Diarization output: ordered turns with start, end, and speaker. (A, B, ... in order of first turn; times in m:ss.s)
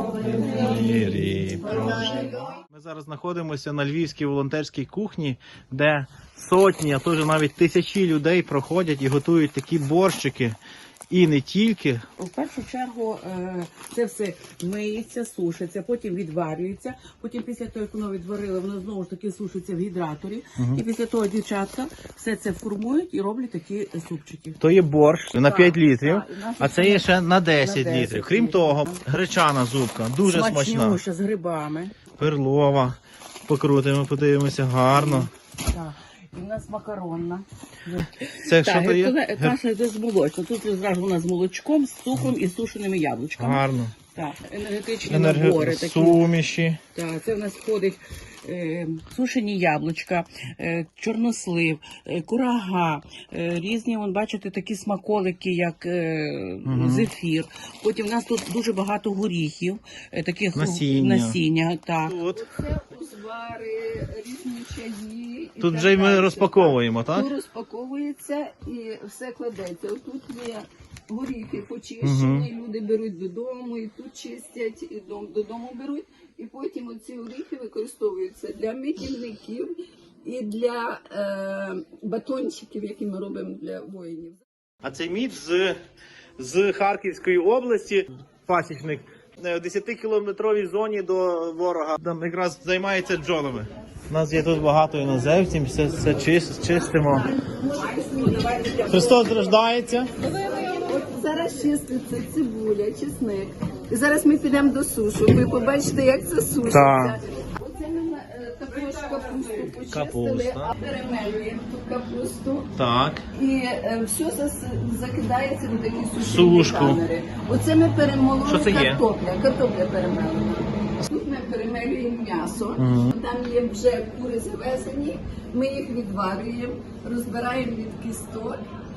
0:00.2-0:10.6 A
0:11.1-0:12.0 A
0:12.2-0:24.6 B
0:24.6-0:31.0 A
0:25.4-0:27.0 C
0:27.6-0:29.0 B
0:30.2-0:31.9 B
0:32.2-0:35.3 A
0:34.9-0:46.2 B
0:38.4-0:39.6 A
0:43.4-0:44.0 A
0:45.1-0:46.8 A
0:47.0-1:02.2 B
0:56.6-0:57.1 A
1:00.5-1:01.4 A
1:02.0-1:02.4 A
1:02.2-1:24.4 C
1:05.6-1:07.3 A
1:12.0-1:12.5 A
1:24.8-1:25.8 A
1:26.4-1:37.3 A
1:37.1-1:39.5 C
1:38.9-1:40.1 A
1:40.3-1:52.7 C
1:46.6-1:47.2 A
1:49.9-1:50.7 A
1:52.8-1:53.2 A
1:53.3-2:08.6 C
1:56.2-1:57.0 A
1:58.4-1:59.0 A
2:02.8-2:03.1 A